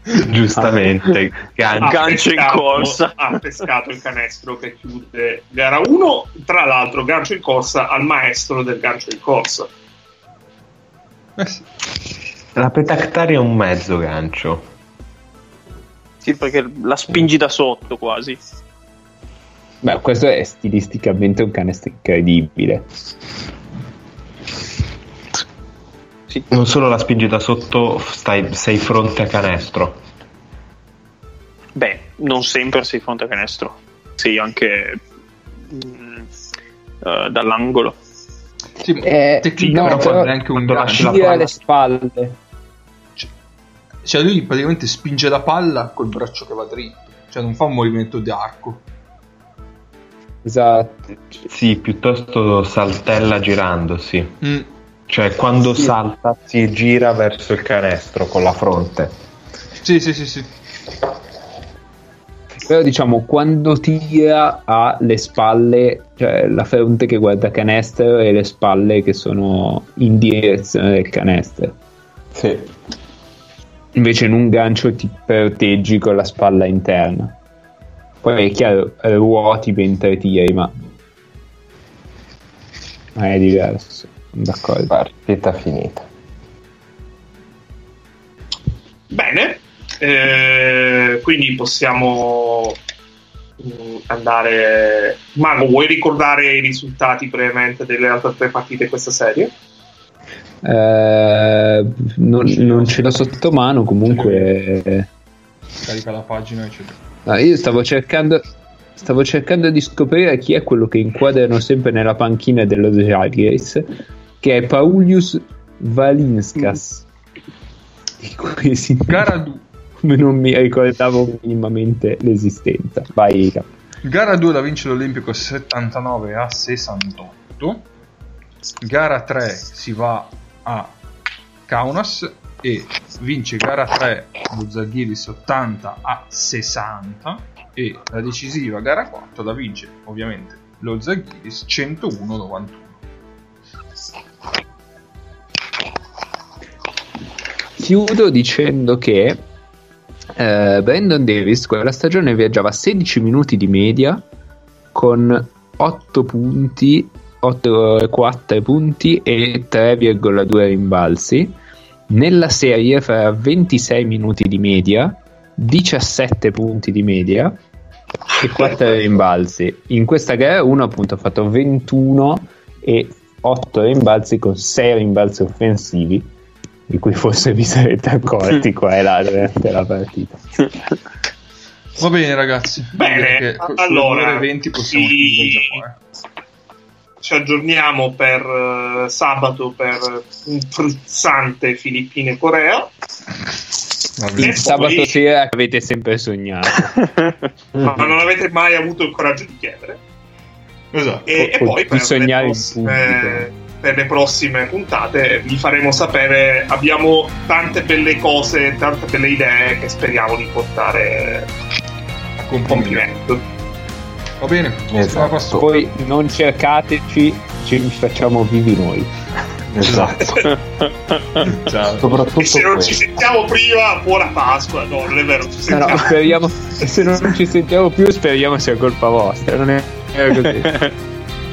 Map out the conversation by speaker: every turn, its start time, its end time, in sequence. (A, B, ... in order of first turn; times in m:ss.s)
0:00.1-0:02.2 A
0:01.8-0:09.7 B
0:01.8-0:03.4 C
0:11.4-0:11.6 D
0:12.5-0:14.6 A
0:16.2-0:18.4 C
0:19.8-0:22.9 E
0:26.5-0:30.0 A
0:31.7-0:35.0 C
0:35.7-0:36.3 C
0:37.0-0:38.0 C
0:38.8-0:41.4 D
0:39.0-0:42.4 E
0:39.8-0:40.1 A
0:40.7-0:41.4 A
0:44.0-0:48.8 D
0:50.4-0:51.4 E
0:51.5-0:54.4 A
0:54.4-0:54.7 D
0:55.1-0:59.1 A
0:59.8-1:00.5 D
1:02.6-1:11.8 E
1:12.3-1:12.7 A
1:13.9-1:17.3 E
1:18.2-1:20.7 E
1:23.1-1:24.9 E
1:24.9-1:26.0 A
1:29.1-1:32.8 B
1:33.6-1:39.5 B
1:40.6-1:45.1 E
1:42.5-1:43.1 D
1:44.1-1:44.5 D
1:45.8-1:47.0 D
1:47.2-1:48.4 E
1:49.0-1:53.9 E
1:54.4-1:57.0 E
1:58.2-1:59.3 E
1:59.0-1:59.6 D
2:00.0-2:03.7 E
2:04.0-2:07.8 D
2:08.8-2:10.9 D
2:11.6-2:23.0 D
2:27.8-2:29.4 E
2:30.4-2:34.2 E
2:34.9-2:41.5 E
2:42.1-2:47.6 E
2:48.4-2:56.3 E
2:56.9-3:00.4 E
3:02.0-3:06.0 D
3:03.0-3:05.8 B
3:07.2-3:12.9 B
3:14.2-3:14.8 D
3:14.4-3:16.9 E
3:14.4-3:15.2 B
3:17.0-3:17.3 C
3:17.8-3:20.0 B
3:20.9-3:21.3 D
3:21.3-3:31.5 B
3:21.3-3:23.5 E
3:32.4-3:33.1 D
3:32.7-3:33.4 B
3:34.4-3:35.6 D
3:34.9-3:35.6 A
3:35.5-3:39.1 E
3:39.7-3:40.5 A
3:39.8-3:40.2 D
3:40.2-3:40.5 B
3:40.4-3:41.6 C
3:41.4-3:42.1 D
3:41.9-3:43.0 A
3:42.4-3:46.2 B
3:45.7-3:50.9 E
3:50.6-3:50.9 C